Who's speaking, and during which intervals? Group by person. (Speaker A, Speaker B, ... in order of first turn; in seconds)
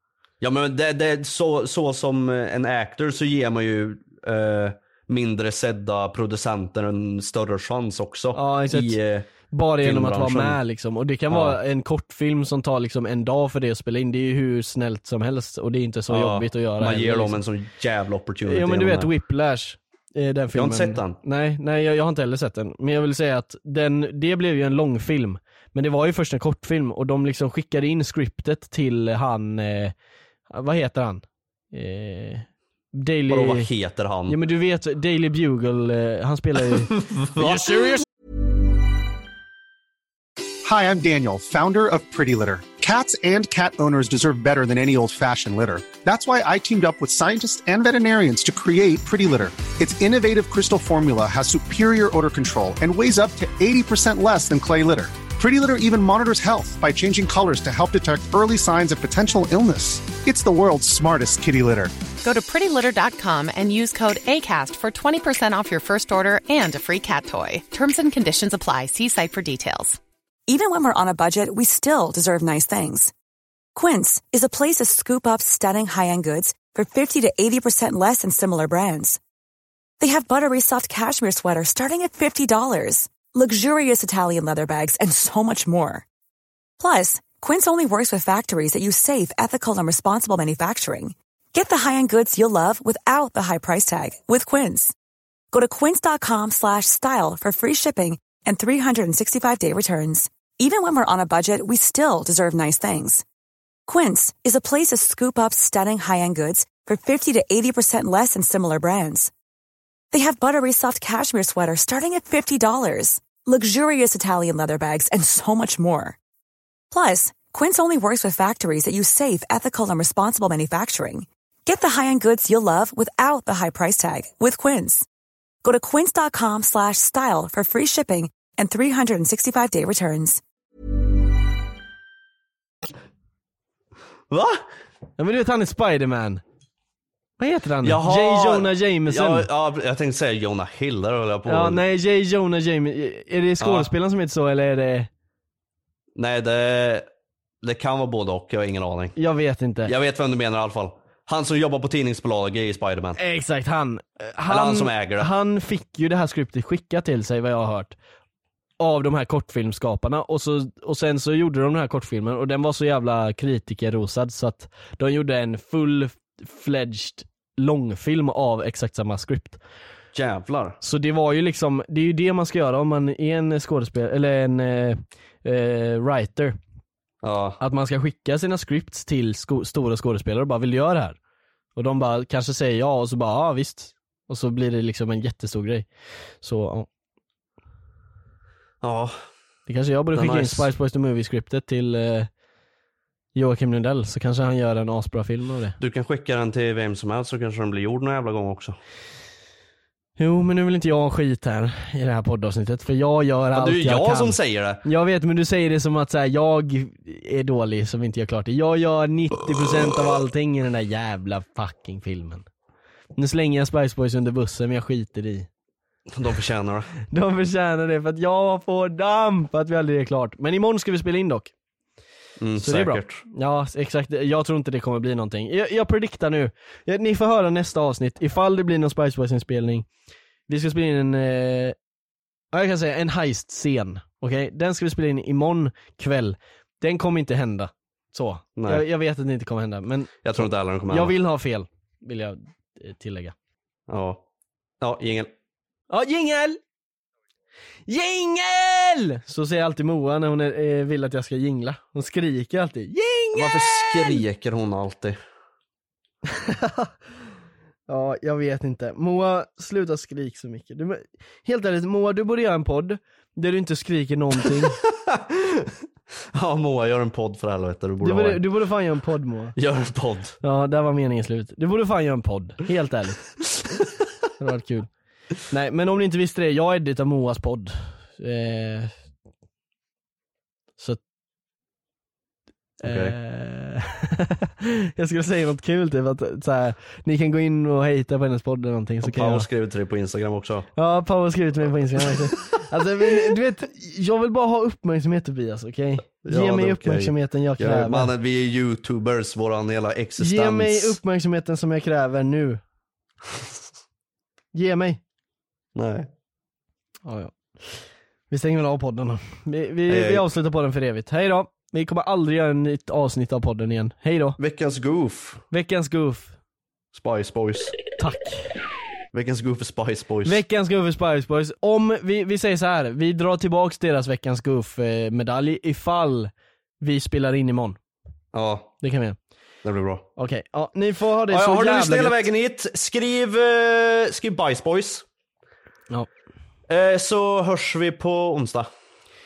Speaker A: 0.4-10.6, 11.3-11.6, 16.1-19.1, 20.5-21.2, 33.3-34.4, 36.9-37.9, 134.3-134.7, 137.8-141.8, 143.6-143.9, 146.2-147.1, 147.6-149.2, 149.9-153.2, 154.5-155.3, 170.1-170.8, 177.2-177.6, 188.8-189.2, 190.1-190.7, 195.8-198.8, 203.5-204.8, 216.1-216.9, 222.4-223.2, 238.6-238.8, 240.2-241.2, 243.9-244.2, 244.8-245.3, 253.3-255.2, 264.8-265.7, 266.3-268.4, 269.6-270.4, 282.8-283.2, 289.0-290.7, 296.2-301.0, 305.8-306.1, 309.9-310.3, 314.4-315.4, 316.9-317.8, 319.1-320.4, 328.3-328.7, 329.6-330.1, 331.3-335.1, 336.7-338.7
Speaker B: 8.3-9.0, 9.5-17.4, 18.4-29.9, 30.5-33.7, 34.3-38.0, 135.2-136.4, 137.4-139.5, 141.5-145.1, 149.2-149.9, 153.2-158.0, 158.8-169.6, 170.8-176.6, 177.6-181.2, 181.8-185.9, 186.4-186.9, 189.7-192.3, 193.3-195.8, 200.2-212.4, 213.2-215.5, 217.1-221.5, 222.6-229.9, 230.5-231.8, 232.5-243.3, 245.9-246.6, 247.9-254.2, 256.3-256.9, 257.9-264.8, 268.0-269.6, 270.4-273.3, 274.4-274.9, 275.5-278.9, 282.8-289.5, 290.8-298.1, 300.2-302.6, 304.5-305.0, 307.1-307.8, 308.3-314.4, 315.5-316.4, 318.0-318.5, 320.2-327.8, 328.8-329.2, 330.2-332.3
Speaker C: 40.6-61.9
Speaker D: 62.2-70.0
Speaker E: 70.5-73.1, 73.8-79.2, 80.0-86.0, 86.8-94.9, 95.5-103.2, 103.9-109.3, 110.1-116.2, 116.9-125.0, 125.6-130.4